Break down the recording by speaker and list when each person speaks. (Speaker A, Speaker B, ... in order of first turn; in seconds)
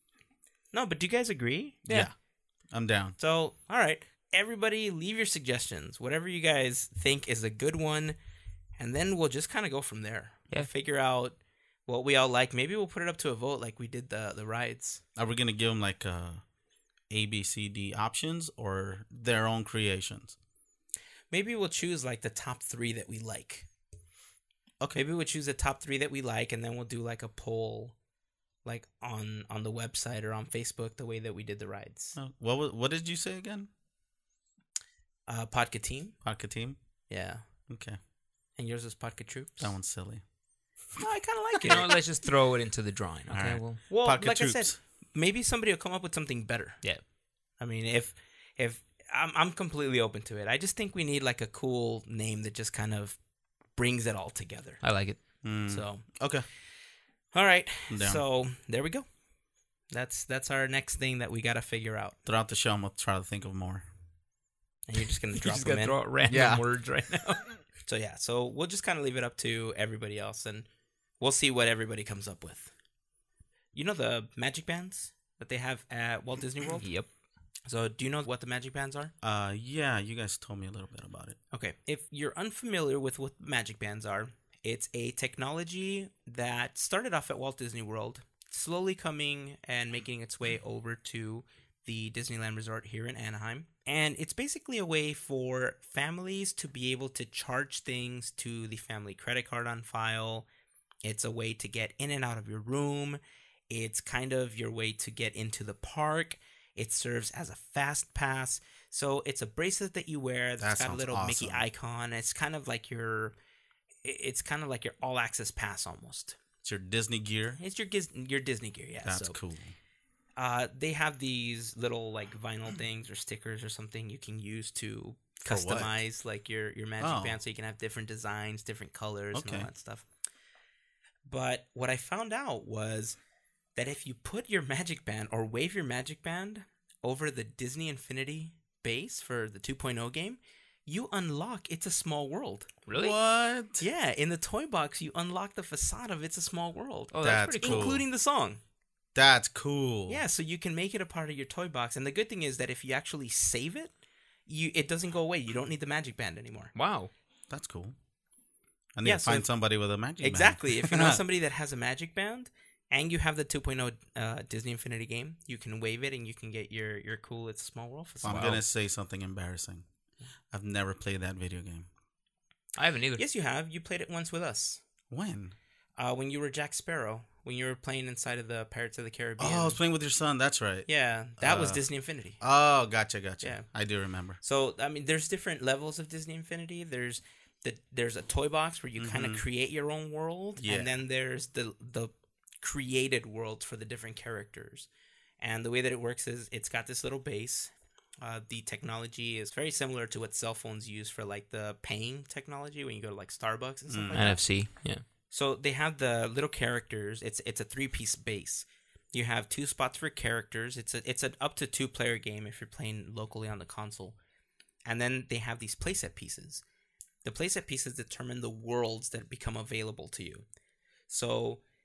Speaker A: 0.7-2.1, 3.2-8.2, 8.8-15.0, 21.3-23.7, 24.9-27.9, 28.6-32.2, 35.3-36.1, 37.1-37.4, 38.6-39.7, 41.0-41.9, 43.9-46.8, 47.6-53.2, 53.7-54.8, 55.7-56.0, 57.3-59.0, 59.9-62.2, 64.9-66.0, 67.8-70.7, 71.2-72.7, 73.7-76.9, 77.7-79.1, 81.5-100.5, 101.0-113.3, 114.0-116.4, 117.6-119.4, 120.4-130.1, 131.2-133.2, 133.8-142.7, 143.8-148.6, 150.1-153.9, 154.5-156.7, 159.0-159.5, 160.2-168.6, 173.2-174.8, 176.0-179.8, 180.9-182.4, 183.4-183.7, 184.4-194.9, 195.4-204.4, 205.3-214.2, 214.8-216.6, 217.2-220.4, 221.1-221.6
Speaker B: 1.9-2.1, 2.7-3.1, 15.2-16.4, 17.1-20.4, 32.1-33.7, 36.2-36.8, 37.7-38.0, 39.6-40.2, 43.3-44.8, 55.4-56.4, 57.9-58.2, 62.2-63.9, 66.3-66.6, 79.2-81.4, 110.6-111.7, 116.6-117.6, 119.0-119.7, 125.4-126.0, 127.0-127.4, 129.3-129.7, 142.9-143.8, 147.2-148.0, 149.1-150.2, 157.5-157.9, 158.9-161.2, 168.2-169.8, 170.5-171.9, 175.1-175.5, 179.4-181.8, 182.4-184.4, 189.0-189.4, 190.6-190.9, 203.9-204.4
Speaker C: 41.6-43.8, 54.8-55.2, 65.3-67.5, 76.8-77.1, 142.9-143.2, 147.1-147.9, 156.7-157.1, 168.2-168.6, 172.8-173.2, 204.1-205.0